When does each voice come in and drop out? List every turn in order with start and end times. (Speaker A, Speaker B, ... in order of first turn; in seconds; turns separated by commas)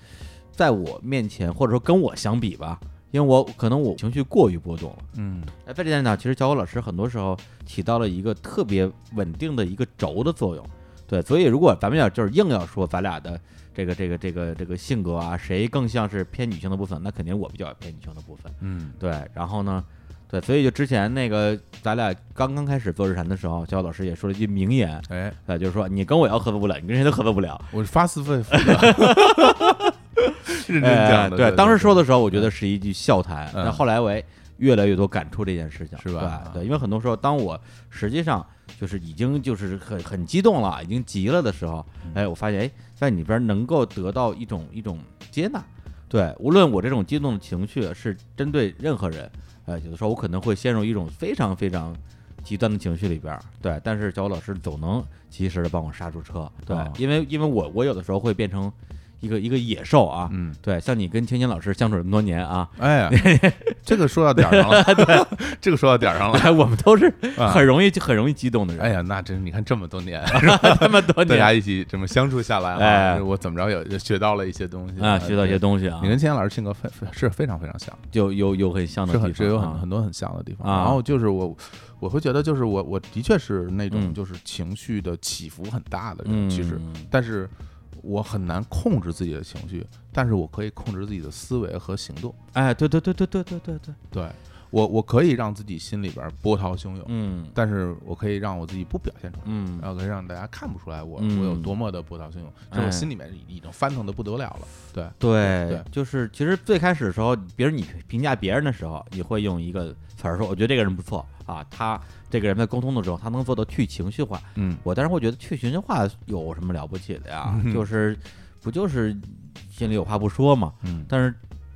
Speaker A: 0.5-5.0, Speaker B: 5.1-5.5, Speaker A: 5.6-27.7, Speaker B: 18.6-19.0, Speaker B: 25.1-25.4, Speaker B: 27.7-29.8, Speaker A: 28.5-65.3, Speaker B: 30.5-32.5, Speaker B: 33.5-33.8, Speaker B: 36.0-36.6, Speaker B: 56.7-57.0, Speaker B: 60.3-60.6, Speaker B: 62.8-63.2, Speaker B: 63.8-66.6, Speaker A: 66.3-68.9, Speaker B: 67.3-67.7, Speaker B: 68.8-78.0, Speaker A: 70.3-71.5, Speaker A: 72.7-73.2, Speaker A: 75.0-76.2, Speaker A: 78.1-79.8, Speaker B: 79.1-92.3, Speaker A: 80.6-81.0, Speaker A: 83.9-84.2, Speaker A: 86.2-87.1, Speaker A: 92.5-94.0, Speaker B: 94.1-105.8, Speaker A: 97.0-97.5, Speaker A: 99.4-99.8, Speaker A: 101.2-101.7, Speaker A: 102.7-103.1, Speaker A: 105.2-121.4, Speaker B: 114.5-114.8, Speaker B: 117.4-117.9, Speaker B: 120.8-121.1